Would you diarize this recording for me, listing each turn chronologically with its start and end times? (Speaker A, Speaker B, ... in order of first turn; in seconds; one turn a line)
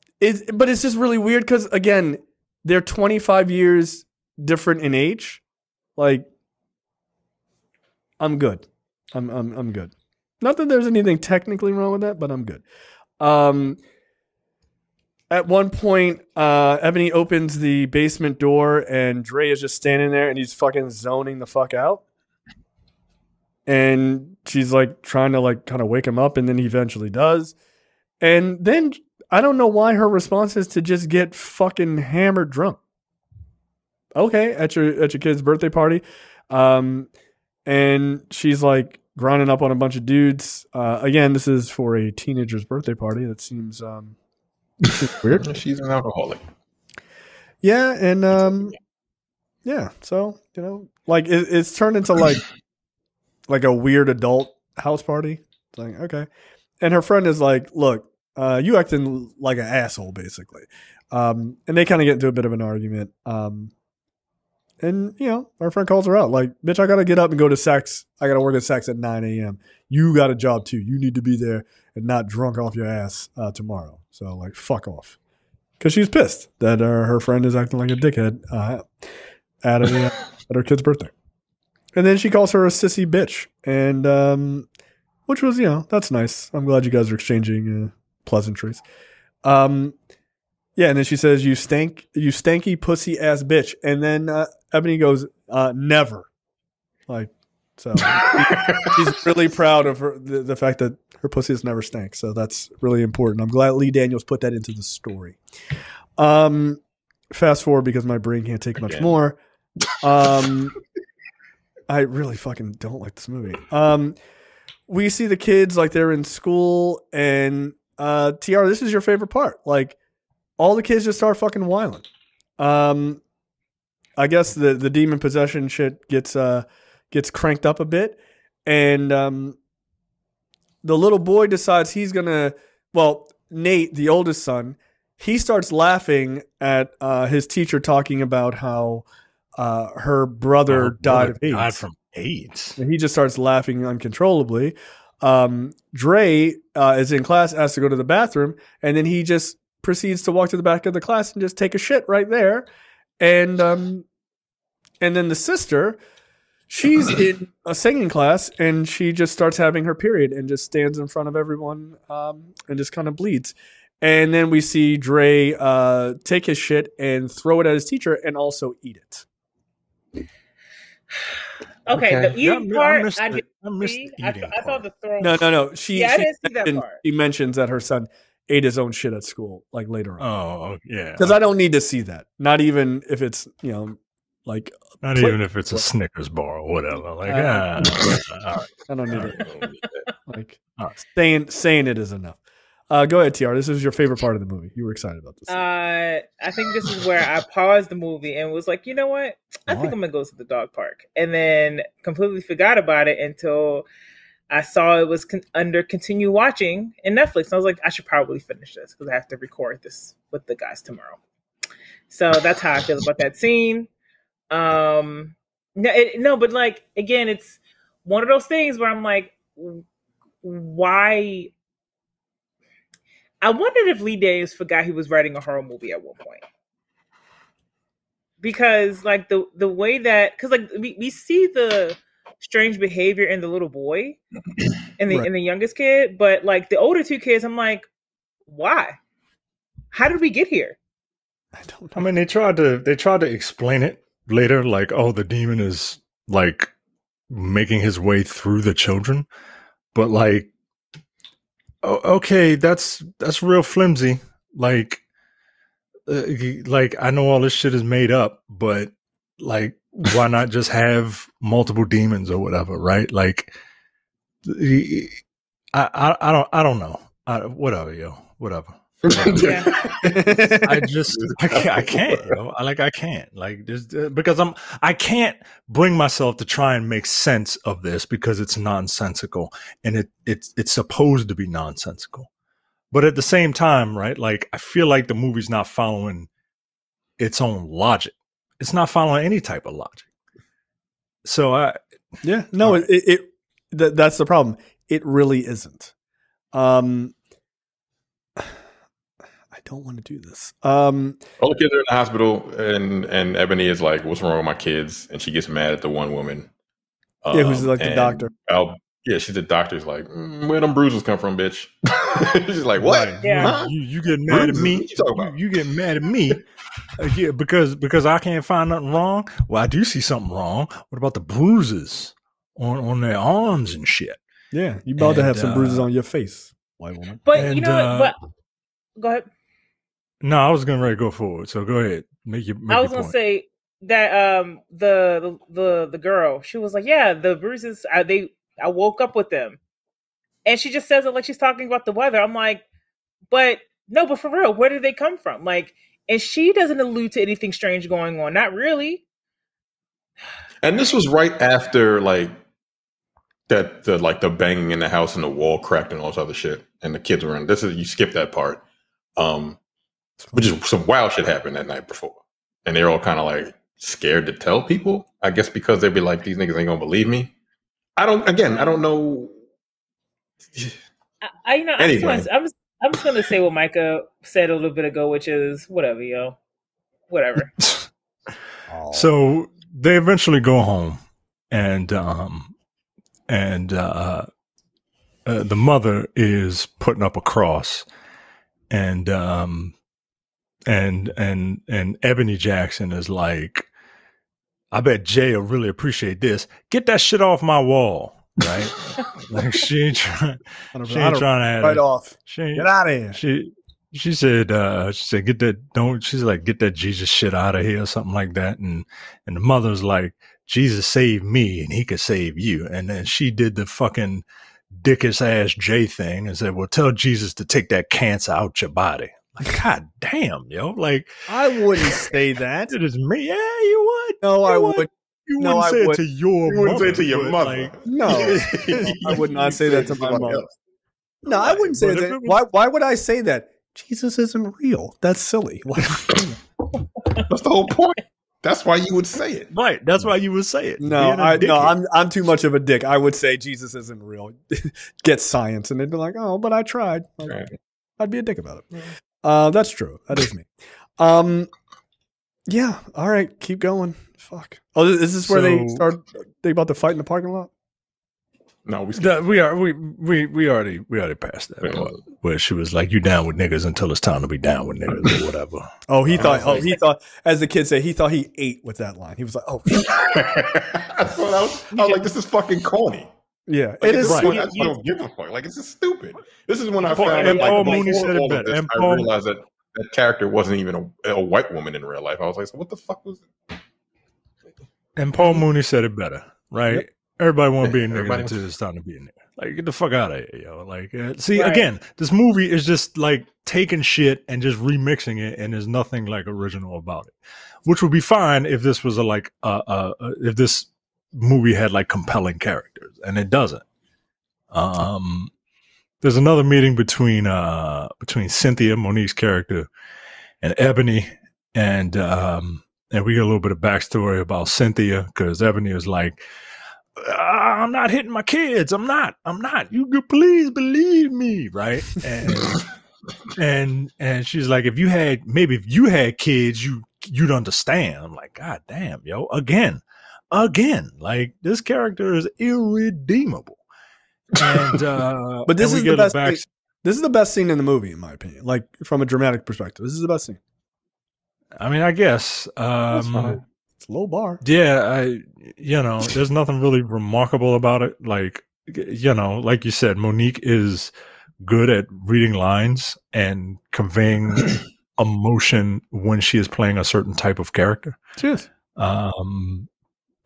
Speaker A: 0.2-5.4
Speaker A: 6.0-6.3
Speaker A: 8.2-12.6
Speaker A: 13.2-13.8
Speaker A: 15.3-22.0
Speaker A: 23.7-27.5
Speaker A: 28.2-32.8
Speaker A: 34.1-37.1
Speaker A: 37.6-44.1
Speaker A: 45.0-45.5
Speaker B: 45.0-46.4
Speaker A: 47.6-48.7
Speaker A: 49.6-52.4
Speaker A: 53.5-56.3
Speaker A: 56.8-63.7
Speaker A: 64.8-75.2
Speaker A: 75.8-78.9
Speaker A: 79.6-81.1
Speaker A: 81.9-84.7
Speaker A: 85.3-88.8
Speaker A: 89.4-89.9
Speaker A: 90.8-96.3
Speaker A: 97.1-105.4
Speaker B: 98.0-98.9
Speaker A: 106.2-106.8
Speaker A: 107.3-109.4
Speaker B: 108.8-109.1
Speaker A: 110.0-110.7
Speaker A: 111.9-114.2
Speaker A: 114.9-120.0
Speaker A: 120.6-122.0
Speaker A: 122.6-123.2
Speaker A: 124.2-129.6
Speaker A: 130.8-139.1
Speaker A: 139.6-141.8
Speaker C: 140.7-142.8
Speaker A: 142.8-152.7
Speaker A: 153.2-154.1
Speaker A: 155.0-156.0
Speaker A: 156.7-169.2
Speaker D: 171.8-177.0
Speaker B: 171.9-172.3
Speaker C: 172.3-174.8
Speaker A: 175.2-180.3
Speaker C: 180.2-181.4
Speaker A: 181.2-185.8
Speaker C: 185.0-189.3
Speaker A: 187.2-187.7
Speaker A: 188.9-189.4
Speaker B: 189.1-190.1
Speaker A: 190.3-192.4
Speaker A: 192.9-195.6
Speaker D: 195.5-203.8
Speaker A: 199.7-199.9
Speaker D: 204.5-211.2
Speaker D: 212.1-213.9
Speaker D: 214.5-219.8
Speaker D: 220.4-221.5
Speaker D: 223.4-226.4
Speaker D: 228.4-234.2
Speaker D: 235.0-237.8
Speaker D: 238.5-239.0
Speaker D: 239.9-240.8
Speaker A: 241.6-242.1
Speaker C: 242.0-246.7
Speaker C: 247.3-249.2
Speaker C: 249.9-250.5
Speaker C: 251.8-255.0
Speaker C: 256.1-263.5
Speaker C: 264.4-265.2
Speaker C: 265.7-269.7
Speaker B: 269.1-272.4
Speaker D: 269.3-269.7
Speaker A: 270.1-270.8
Speaker C: 270.6-282.3
Speaker C: 282.9-286.3
Speaker C: 287.2-290.1
Speaker C: 291.2-291.8
Speaker A: 292.2-295.9
Speaker C: 292.6-292.9
Speaker A: 296.5-297.1
Speaker A: 299.5-301.2
Speaker B: 301.4-306.5
Speaker B: 307.2-313.7
Speaker A: 307.3-308.3
Speaker A: 312.8-313.4
Speaker D: 313.2-313.6
Speaker C: 313.2-316.4
Speaker B: 314.2-315.4
Speaker C: 317.0-324.2
Speaker A: 324.5-327.2
Speaker C: 325.0-325.9
Speaker D: 327.2-328.2
Speaker C: 327.3-328.1
Speaker D: 329.0-329.3
Speaker C: 330.2-333.1
Speaker D: 332.7-339.6
Speaker D: 340.4-342.6
Speaker D: 343.3-349.0
Speaker B: 350.6-352.4
Speaker B: 353.5-358.6
Speaker B: 359.1-359.6
Speaker B: 360.3-367.3
Speaker B: 367.9-369.3
Speaker B: 370.5-370.8
Speaker D: 371.2-376.4
Speaker B: 371.8-372.3
Speaker D: 377.1-377.5
Speaker C: 377.4-377.9
Speaker A: 378.7-379.1
Speaker C: 378.9-382.5
Speaker C: 383.3-384.3
Speaker C: 385.2-387.9
Speaker C: 388.7-389.7
Speaker C: 390.7-393.7
Speaker C: 394.7-421.2
Speaker A: 400.7-403.2
Speaker A: 421.3-422.7
Speaker C: 421.8-422.1
Speaker C: 422.7-429.2
Speaker A: 424.2-426.0
Speaker B: 426.5-430.5
Speaker A: 427.9-430.4
Speaker A: 431.2-436.2
Speaker C: 431.3-432.4
Speaker B: 437.3-439.5
Speaker C: 439.5-441.8
Speaker A: 440.8-447.4
Speaker B: 447.2-447.5
Speaker A: 448.0-448.7
Speaker A: 449.2-451.5
Speaker A: 452.5-457.5
Speaker C: 455.2-455.9
Speaker B: 458.6-459.2
Speaker C: 458.9-466.6
Speaker B: 461.6-462.0
Speaker A: 465.9-469.8
Speaker B: 466.1-466.8
Speaker B: 469.7-473.1
Speaker D: 471.7-472.1
Speaker A: 473.5-474.8
Speaker B: 473.8-483.3
Speaker C: 474.0-474.5
Speaker C: 476.9-479.1
Speaker D: 476.9-478.0
Speaker C: 485.0-503.6
Speaker B: 487.6-488.4
Speaker D: 491.3-491.7
Speaker C: 504.5-505.3
Speaker C: 506.0-509.7
Speaker C: 510.4-516.2
Speaker C: 517.0-522.6
Speaker C: 523.3-533.6
Speaker C: 534.3-536.5
Speaker A: 535.5-540.4
Speaker C: 541.6-543.4
Speaker A: 542.9-544.4
Speaker C: 544.4-558.0
Speaker A: 558.2-558.5
Speaker C: 558.8-559.7